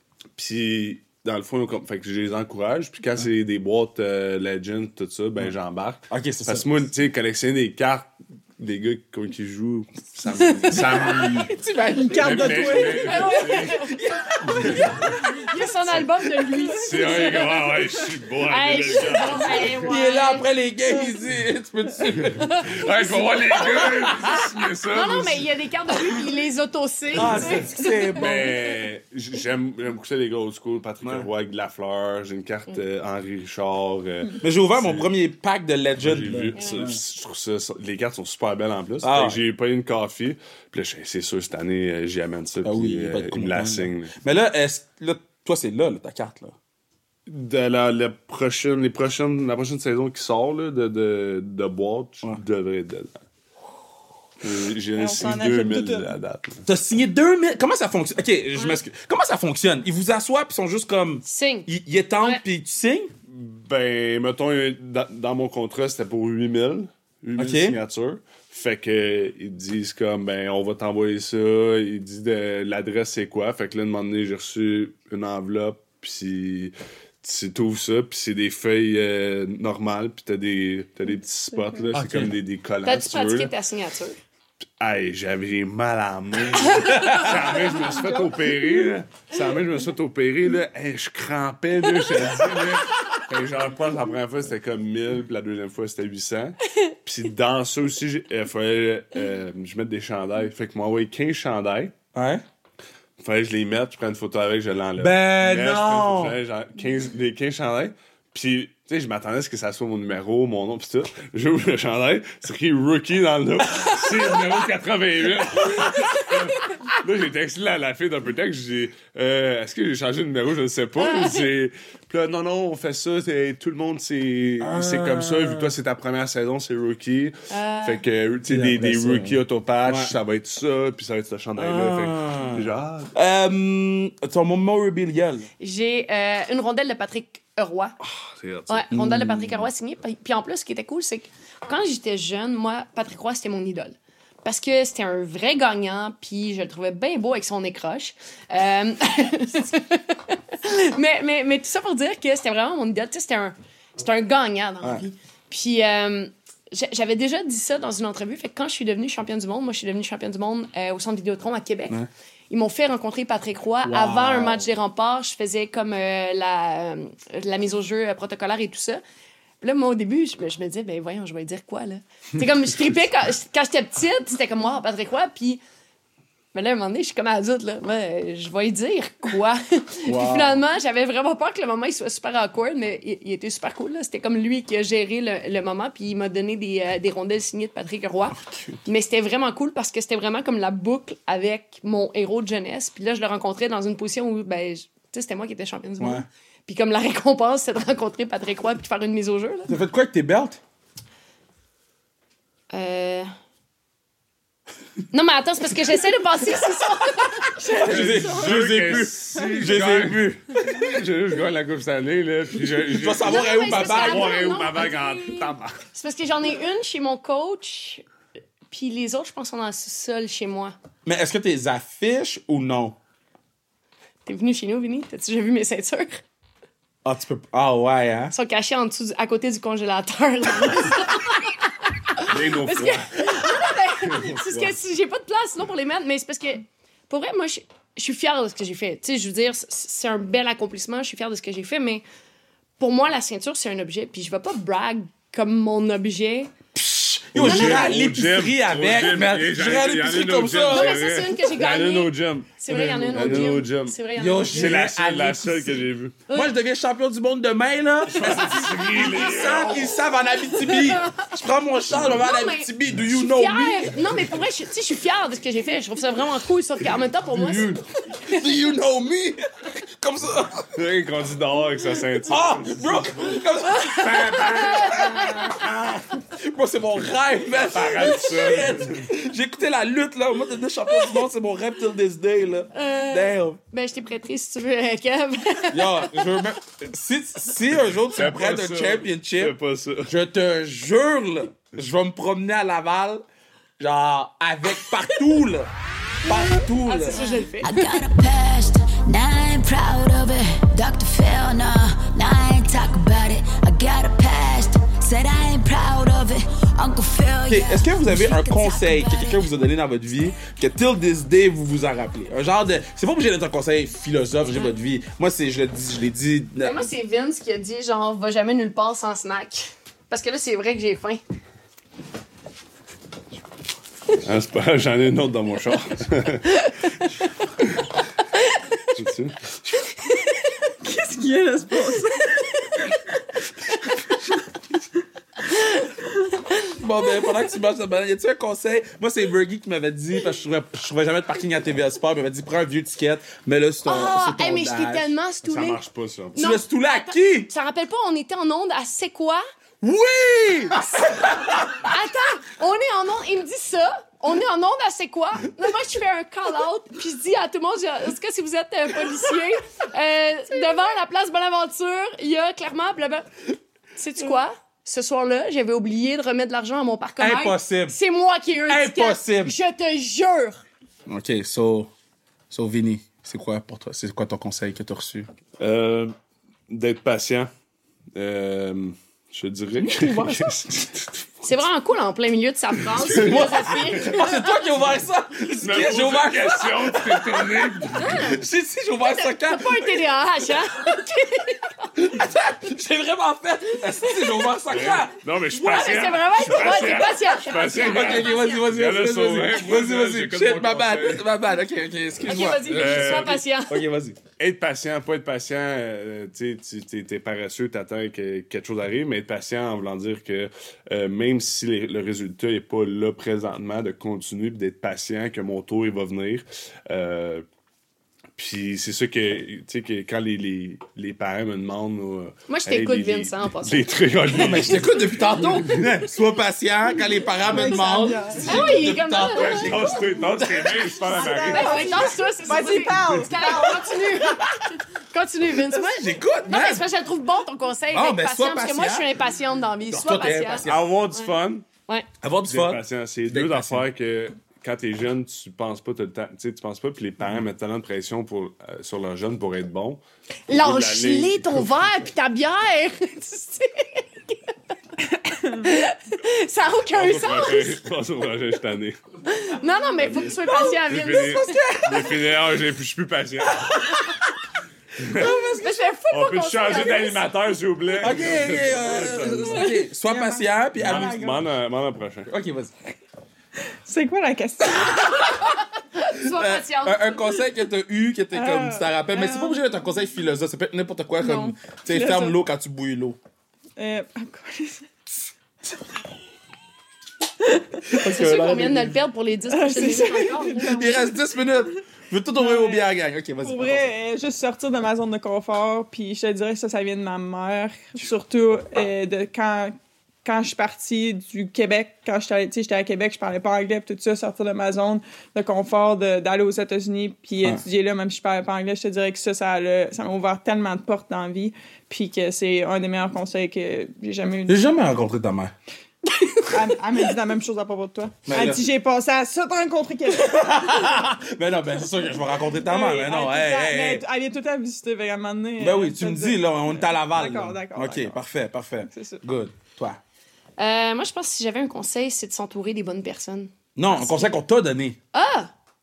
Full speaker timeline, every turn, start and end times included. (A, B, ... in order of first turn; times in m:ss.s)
0:00.3-0:11.6 A
0:06.1-0:06.8 B
0:10.7-0:15.4 B
0:11.9-0:13.6 C
0:12.1-0:15.1 A
0:13.1-0:13.9 D
0:15.0-0:17.9 D
0:15.9-0:16.8 B
0:16.8-0:19.9 A
0:18.4-0:20.5 D
0:19.7-0:22.5 B
0:22.1-0:25.5 A
0:22.1-0:24.3 D
0:24.9-0:28.4 D
0:27.1-0:28.5 B
0:27.2-0:27.5 A
0:28.1-0:35.1 A
0:31.0-0:31.3 B
0:34.4-0:37.0 B
0:36.0-0:44.1 A
0:36.5-0:36.8 D
0:39.0-0:39.4 B
0:42.6-0:46.6 B
0:47.3-0:53.2 A
0:54.4-0:56.6 A
0:55.0-0:56.1 C
0:56.6-1:03.1 B
1:01.2-1:01.7 D
1:03.3-1:23.5 A
1:07.4-1:07.8 B
1:21.9-1:22.3 B
1:22.8-1:24.2 D
1:24.8-1:41.9 A
1:26.8-1:27.3 B
1:26.8-1:27.3 D
1:42.1-1:42.4 B
1:43.2-2:13.1 A
1:45.0-1:46.4 B
2:01.0-2:01.5 D
2:04.6-2:05.7 B
2:07.5-2:08.0 D
2:08.5-2:10.2 B
2:11.6-2:15.5 B
2:15.6-2:17.9 D
2:18.0-2:18.9 A
2:18.7-2:42.0 D
2:18.9-2:19.7 B
2:42.5-2:49.0 D
2:43.8-2:44.7 B
2:49.6-2:55.6 D
2:56.5-3:19.8 D
3:00.0-3:00.6 B
3:08.4-3:08.8 B
3:16.0-3:16.2 B
3:19.7-3:20.6 B
3:22.7-3:23.3 D
3:25.1-3:28.5 D
3:27.6-3:30.4 B
3:27.8-3:35.8 A
3:32.8-3:34.4 B
3:33.2-3:38.0 D
3:38.7-3:40.7 D
3:41.0-3:43.0 B
3:44.2-3:46.2 D
3:47.0-3:48.3 B
3:48.3-4:02.0 D
3:52.2-3:53.5 A
3:54.0-3:54.7 A
4:02.8-4:06.5 D
4:06.7-4:11.0 B
4:07.3-4:16.2 A
4:07.4-4:08.0 D
4:10.7-4:14.7 D
4:13.1-4:13.6 B
4:14.2-4:24.1 B
4:18.2-4:20.0 A
4:18.2-4:19.3 D
4:20.4-4:21.3 D
4:22.0-4:28.4 D
4:27.4-4:30.7 B
4:30.7-4:33.4 A
4:32.2-4:43.6 B
4:33.7-4:35.6 D
4:34.0-4:35.3 A
4:37.6-4:39.1 A
4:42.7-4:46.1 D
4:45.7-4:49.5 B
4:48.1-4:50.1 A
4:50.0-4:53.2 B
4:53.8-4:55.7 B
4:56.2-4:57.3 B
4:56.2-4:58.0 D
4:57.6-5:09.4 E
5:07.5-5:16.8 B
5:16.6-5:21.2 D
5:24.2-5:26.6 A
5:26.7-5:27.2 D
5:28.9-5:29.4 A
5:30.8-5:32.3 C
5:36.7-5:45.1 B
5:43.8-5:45.8 D
5:45.4-5:46.4 A
5:46.4-5:47.5 B
5:46.4-5:49.4 D
5:49.8-5:50.9 B
5:51.6-6:03.3 D
6:04.0-6:10.6 D
6:07.2-6:08.0 B
6:08.7-6:09.6 B
6:11.0-6:11.9 B
6:12.5-6:15.3 B
6:15.6-6:16.1 A
6:16.7-6:17.5 A
6:18.1-6:21.2 A
6:19.8-6:20.6 B
6:21.4-6:24.6 D
6:22.8-6:24.1 A
6:23.0-6:30.5 B
6:25.6-6:28.3 A
6:28.0-6:28.4 D
6:29.0-6:31.9 D
6:31.9-6:35.2 B
6:34.7-6:41.2 A
6:35.5-6:38.6 D
6:37.7-6:44.2 B
6:42.2-6:43.8 D
6:42.6-6:43.4 A
6:44.4-6:57.4 A
6:58.4-7:05.9 A
7:02.5-7:03.9 D
7:04.3-7:10.9 B
7:07.4-7:08.6 C
7:08.4-7:10.0 D
7:09.3-7:12.1 A
7:11.1-7:14.0 C
7:11.5-7:14.6 D
7:15.1-7:21.3 D
7:15.7-7:16.8 B
7:17.9-7:19.1 B
7:19.9-7:20.9 B
7:20.6-7:21.6 A
7:22.2-7:23.8 B
7:22.5-7:31.7 A
7:30.5-7:34.0 D
7:35.4-7:37.8 D
7:36.9-7:39.0 A
7:39.3-7:41.6 D
7:40.8-7:44.0 A
7:41.2-7:42.1 B
7:45.0-7:45.3 A
7:45.2-7:45.7 C
7:45.2-7:47.3 D
7:46.1-7:49.7 A
7:48.0-7:51.3 B
7:49.6-7:51.4 C
7:50.8-7:52.3 A
7:52.3-7:52.7 B
7:53.8-7:55.3 C
7:55.4-7:57.2 D
7:56.1-8:03.2 B
7:58.3-7:59.6 C
8:01.2-8:02.4 C
8:03.8-8:04.9 C
8:07.8-8:09.0 B
8:08.0-8:11.1 D
8:09.5-8:11.2 C
8:10.6-8:13.9 B
8:12.4-8:12.9 C
8:13.4-8:34.6 C
8:34.5-8:35.5 B
8:36.5-8:40.4 C
8:38.3-8:38.7 B
8:40.1-8:44.0 B
8:42.6-8:48.2 C
8:45.6-8:50.0 B
8:48.9-8:49.2 C
8:50.6-8:54.3 D
8:53.8-8:55.0 B
8:55.1-8:55.5 D